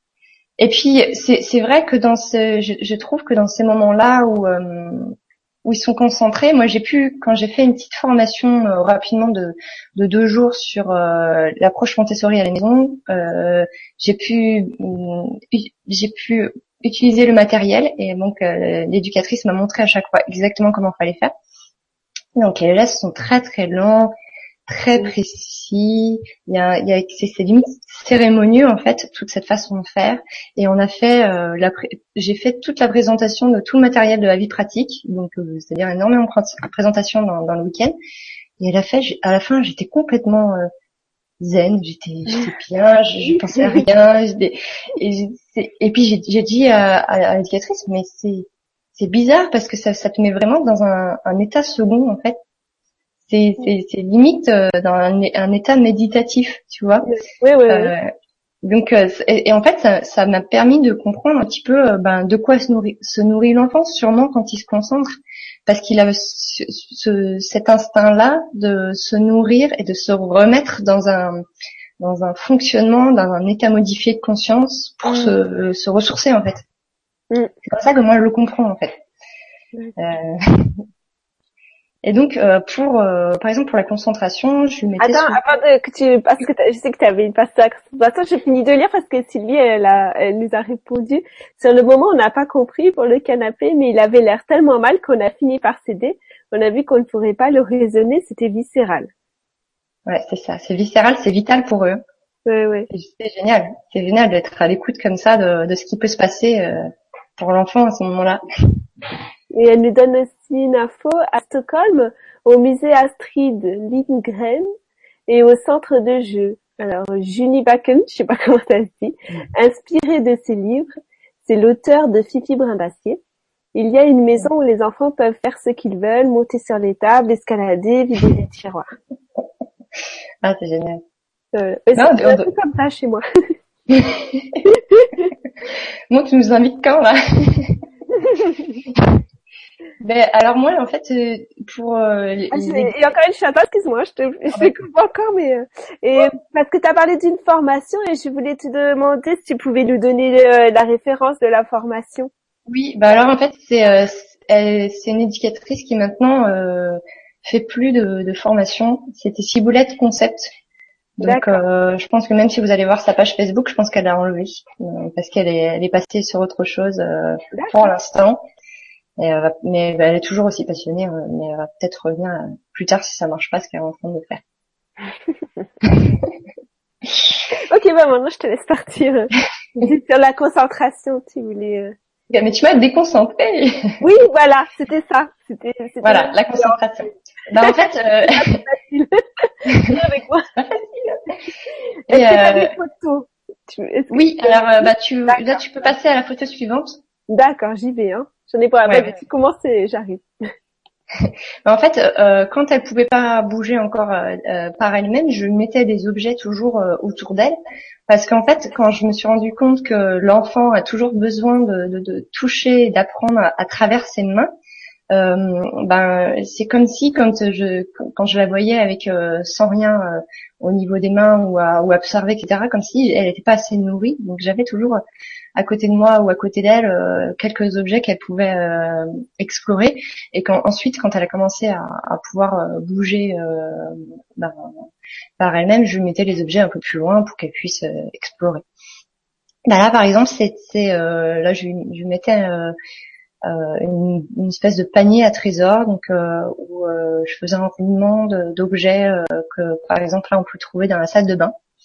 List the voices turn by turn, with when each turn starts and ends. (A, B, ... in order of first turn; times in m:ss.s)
0:00.6-0:21.3 A
0:22.4-0:24.1 A
0:24.7-0:37.9 A
0:38.6-0:40.7 A
0:41.4-0:52.4 A
0:43.3-0:43.8 B
0:53.3-0:57.1 A
0:57.0-0:57.9 B
0:57.7-0:58.1 A
0:58.6-1:05.1 A
1:05.7-1:11.4 A
1:12.0-1:16.6 A
1:15.0-1:15.4 B
1:17.6-1:19.0 A
1:20.0-1:20.8 A
1:22.0-1:25.4 A
1:25.0-1:39.1 B
1:40.1-1:42.0 A
1:42.4-1:42.9 B
1:42.9-1:48.4 A
1:49.5-1:54.7 B
1:55.3-2:00.9 B
2:01.4-2:03.2 B
2:03.7-2:08.9 B
2:10.4-2:11.0 A
2:11.5-2:13.2 B
2:12.0-2:12.5 A
2:13.9-2:14.6 A
2:14.6-2:15.3 B
2:16.1-2:17.7 A
2:18.2-2:18.6 B
2:20.0-2:23.0 A
2:22.5-2:32.3 B
2:32.7-2:40.5 A
2:41.2-2:48.4 A
2:41.2-2:41.6 B
2:47.5-2:47.9 B
2:49.2-2:54.4 A
2:55.8-2:56.3 A
2:57.5-3:01.9 B
3:02.3-3:04.0 A
3:04.0-3:06.8 B
3:06.0-3:08.6 A
3:07.6-3:11.0 B
3:09.7-3:10.0 A
3:11.7-3:15.6 B
3:12.1-3:12.7 A
3:14.1-3:17.0 A
3:17.3-3:20.2 B
3:18.8-3:19.2 A
3:21.2-3:27.5 A
3:28.1-3:34.5 A
3:35.1-3:45.0 A
3:45.6-3:54.8 A
3:55.4-3:58.6 A
3:59.7-4:02.7 A
4:03.4-4:11.5 A